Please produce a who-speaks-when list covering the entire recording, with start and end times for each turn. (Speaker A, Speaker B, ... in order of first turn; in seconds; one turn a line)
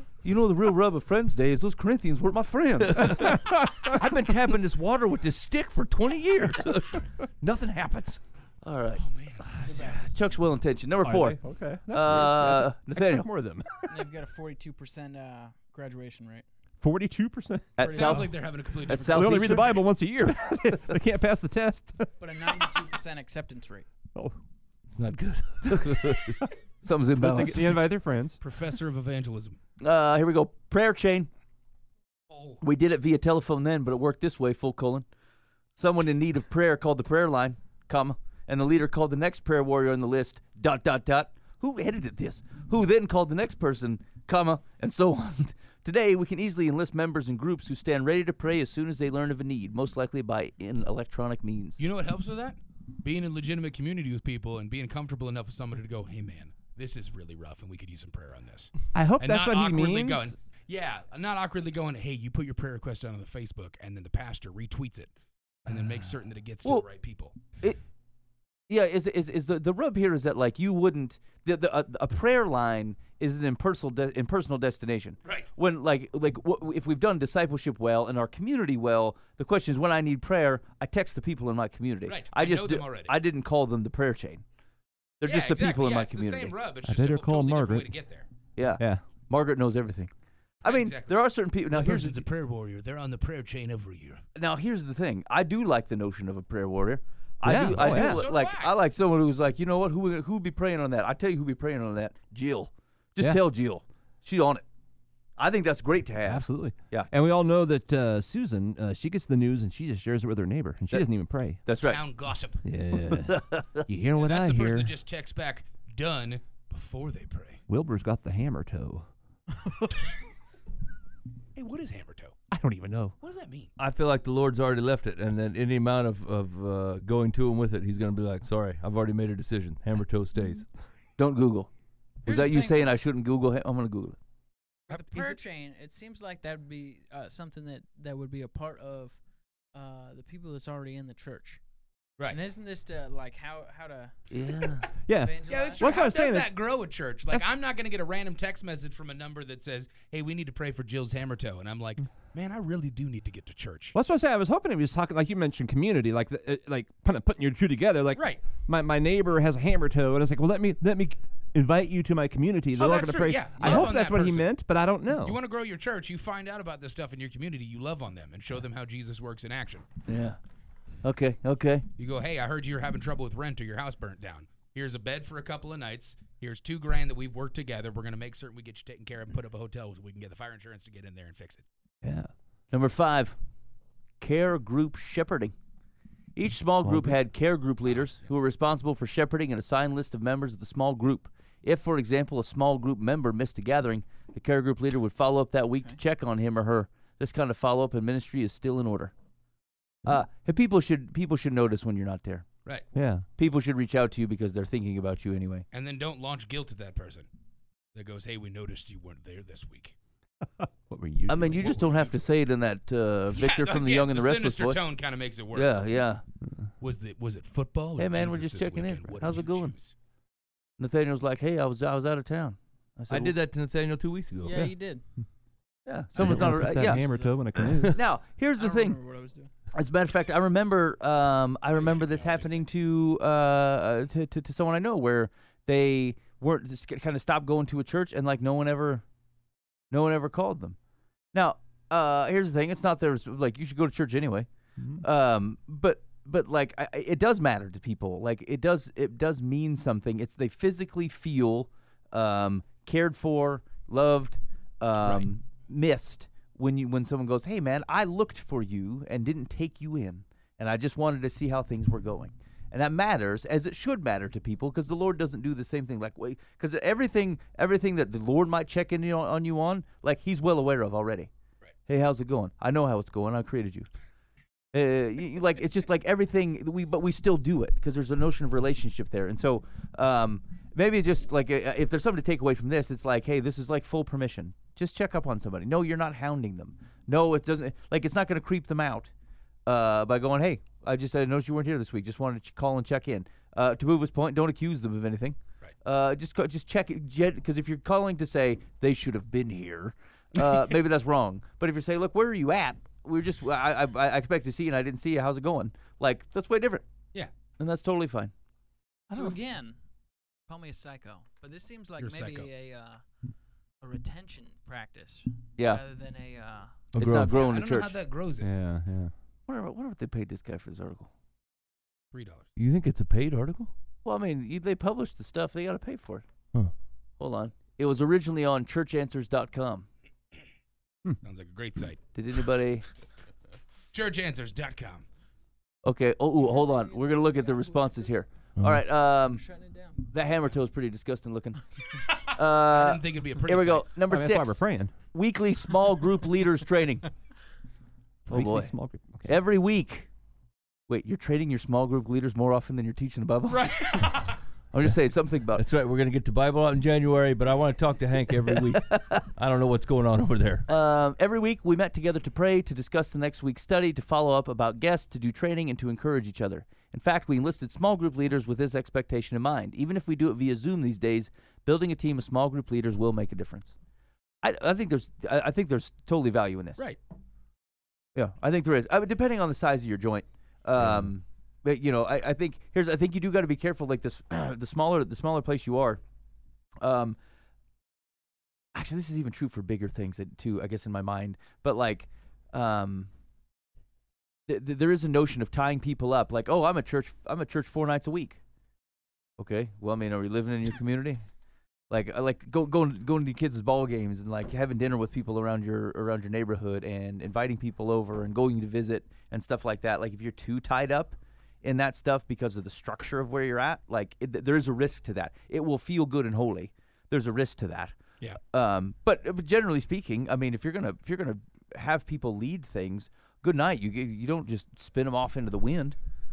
Speaker A: 0.2-4.5
Speaker B: 3.0-6.2
Speaker C: 3.2-3.5
Speaker A: 6.1-9.0
Speaker D: 9.0-9.9
Speaker A: 9.6-11.4
Speaker E: 9.7-10.0
Speaker C: 11.0-13.9
Speaker A: 11.9-13.3
Speaker E: 13.9-16.4
Speaker C: 16.8-18.2
Speaker A: 17.8-18.3
Speaker D: 17.8-19.8
Speaker A: 18.9-19.8
Speaker C: 19.0-22.1
Speaker E: 22.2-23.9
Speaker B: 24.9-26.4
Speaker A: 26.8-27.8
Speaker C: 27.2-28.4
Speaker D: 28.4-29.6
Speaker A: 29.8-31.3
Speaker D: 32.3-32.6
Speaker A: 32.6-35.0
Speaker A: 35.8-51.8
Speaker D: 51.8-65.1
Speaker C: 58.9-60.3
Speaker D: 65.7-67.3
Speaker A: 68.7-84.4
Speaker D: 82.0-83.1
Speaker A: 85.2-86.5
Speaker D: 85.2-88.3
Speaker C: 86.8-87.9
Speaker A: 88.5-90.1
Speaker C: 88.8-89.0
Speaker A: 90.6-92.2
Speaker D: 90.6-94.2
Speaker A: 94.3-104.6
Speaker C: 97.4-98.3
Speaker D: 97.5-98.7
Speaker A: 105.4-107.1
Speaker C: 106.2-111.6
Speaker A: 111.7-112.0
Speaker D: 111.7-112.6
Speaker B: 112.7-113.3
Speaker C: 112.8-113.3
Speaker A: 113.3-113.8
Speaker C: 113.8-114.9
Speaker D: 114.2-117.6
Speaker C: 117.7-119.1
Speaker D: 121.5-122.3
Speaker C: 122.5-123.1
Speaker D: 123.2-123.7
Speaker B: 123.8-130.6
Speaker A: 131.2-131.7
Speaker A: 132.2-134.2
Speaker E: 132.3-132.8
Speaker E: 134.9-139.2
Speaker D: 134.9-135.3
Speaker E: 139.7-141.6
Speaker E: 142.3-144.1
Speaker A: 144.3-144.8
Speaker C: 145.1-146.5
Speaker E: 145.2-146.1
Speaker D: 145.5-153.9
Speaker C: 153.9-165.4
Speaker D: 158.1-158.4
Speaker D: 162.7-164.5
Speaker A: 163.6-163.9
Speaker D: 165.2-169.8
Speaker A: 170.1-170.4
Speaker A: 171.0-171.8
Speaker D: 172.0-181.6
Speaker C: 182.0-182.3
Speaker A: 182.7-183.4
Speaker A: 184.2-185.5
Speaker A: 186.3-199.1
Speaker C: 186.8-187.1
Speaker D: 187.9-188.1
Speaker A: 200.0-202.5
Speaker C: 202.9-203.2
Speaker A: 203.4-205.7
Speaker D: 205.7-207.3
Speaker D: 207.9-209.9
Speaker C: 210.4-211.8
Speaker A: 211.3-214.8
Speaker D: 213.3-215.9
Speaker A: 215.5-216.2
Speaker D: 216.8-219.9
Speaker A: 218.0-219.7
Speaker A: 220.8-223.4
Speaker B: 223.1-224.7
Speaker E: 224.4-225.0
Speaker A: 225.8-227.0
Speaker C: 226.2-228.0
Speaker E: 226.3-227.4
Speaker A: 227.9-229.0
Speaker E: 228.6-229.5
Speaker A: 229.7-239.0
Speaker D: 231.7-232.6
Speaker A: 239.9-240.8
Speaker A: 241.3-244.5
Speaker C: 244.8-245.0
Speaker A: 245.0-271.3
Speaker D: 255.0-255.3
Speaker A: 271.9-273.9
Speaker A: 274.7-289.1
Speaker A: 289.6-306.8
Speaker A: 307.6-308.3
Speaker A: 309.1-309.4
Speaker E: 309.1-309.8
Speaker E: 310.5-313.0
Speaker D: 312.0-312.5
Speaker E: 313.8-316.8
Speaker A: 315.6-315.8
Speaker A: 316.9-317.9
Speaker B: 316.9-317.3
Speaker D: 317.2-318.5
Speaker C: 318.4-319.1
Speaker A: 319.5-321.1
Speaker D: 322.1-322.5
Speaker B: 322.6-323.7
Speaker A: 324.0-326.2
Speaker A: 327.2-329.9
Speaker D: 331.2-332.0
Speaker A: 332.1-332.9
Speaker D: 333.9-335.1
Speaker A: 335.8-339.4
Speaker E: 336.4-338.1
Speaker B: 338.6-338.8
Speaker E: 339.2-340.0
Speaker A: 340.1-341.6
Speaker D: 341.9-343.9
Speaker A: 342.3-344.6
Speaker C: 344.1-344.9
Speaker A: 345.1-347.1
Speaker C: 348.3-349.4
Speaker A: 348.3-348.7
Speaker A: 349.2-350.1
Speaker A: 350.9-354.1
Speaker D: 353.5-354.4
Speaker A: 354.7-355.6
Speaker B: 355.5-360.7
Speaker A: 360.7-373.7
Speaker A: 374.4-376.8
Speaker A: 378.1-386.0
Speaker C: 380.8-381.1
Speaker A: 386.8-387.2
Speaker A: 388.7-393.1
Speaker A: 394.5-398.4
Speaker A: 399.4-401.2
Speaker A: 401.9-425.9